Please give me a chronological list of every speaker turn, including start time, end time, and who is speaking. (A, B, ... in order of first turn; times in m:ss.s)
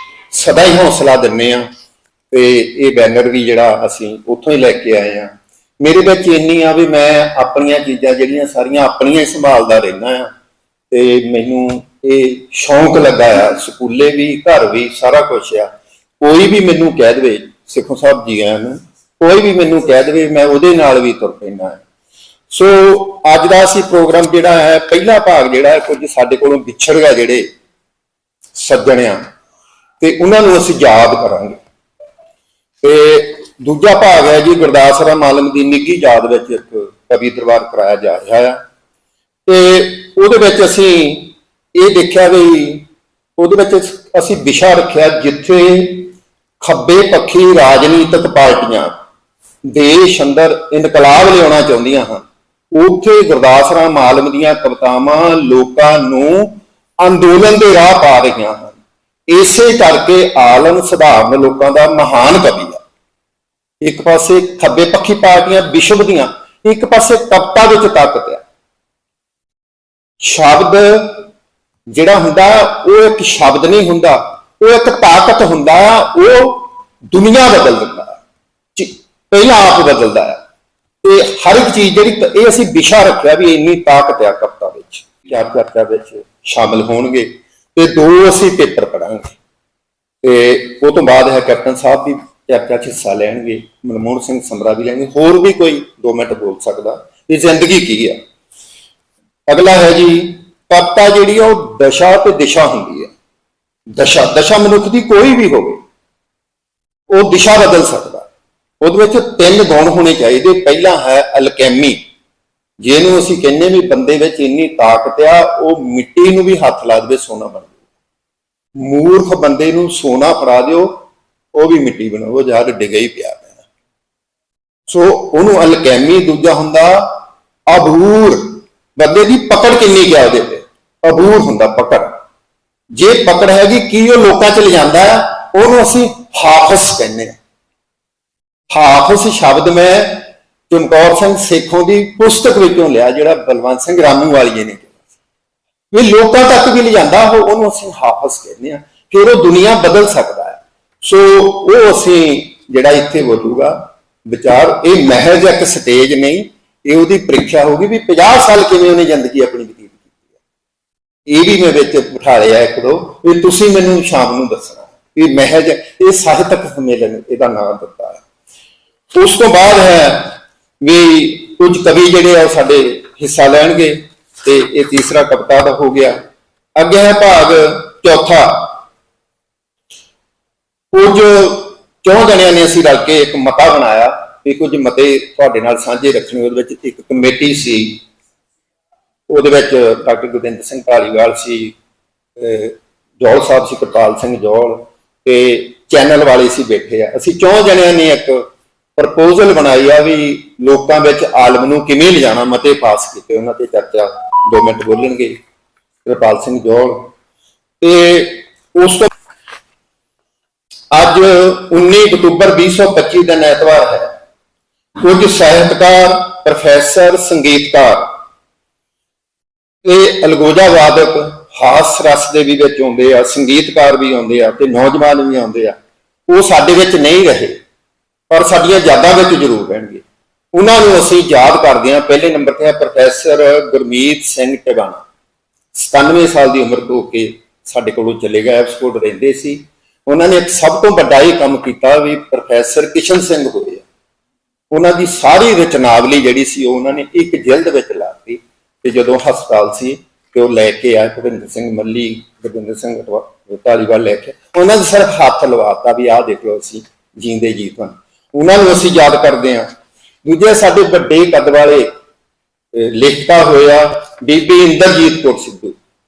0:00.3-0:01.6 A
0:02.3-0:10.3 A
0:10.9-0:15.7 A
0:16.2-0:21.8 A
0:22.5-0:27.5 A
0:28.6-0:29.2 A
0:30.0-0:31.6 A
0:32.8-0:38.6 A
0:39.5-0:42.9 A
0:43.4-0:48.9 A
0:49.7-0:52.2 A
0:52.7-0:58.8 A
0:59.3-1:02.8 A
1:03.8-1:08.4 A
1:10.2-1:11.3 A
1:11.9-1:18.2 A
1:18.8-1:20.4 A
1:21.0-1:29.4 A
1:30.2-1:38.2 A
1:39.5-1:43.1 A
1:44.0-1:45.8 A
1:47.1-1:48.2 A
1:48.8-1:52.0 A
1:52.8-1:57.7 A
1:58.8-2:03.5 A
2:04.9-2:07.1 A
2:07.7-2:12.1 A
2:13.0-2:17.4 A
2:18.7-2:24.9 A
2:25.9-2:33.8 A
2:34.3-2:40.1 A
2:41.3-2:48.2 A
2:49.1-2:56.2 A
2:56.8-2:58.7 A
3:00.9-3:08.0 A
3:09.3-3:11.8 A
3:12.4-3:18.4 A
3:19.0-3:25.4 A
3:26.0-3:27.1 A
3:27.8-3:29.1 A
3:30.9-3:34.1 A
3:35.0-3:38.0 A
3:39.8-3:45.8 A
3:46.3-3:47.6 A
3:48.3-3:50.0 A
3:50.6-3:55.0 A
3:55.8-4:03.8 A
4:04.7-4:19.7 A
4:20.2-4:21.9 A
4:22.8-4:25.8 A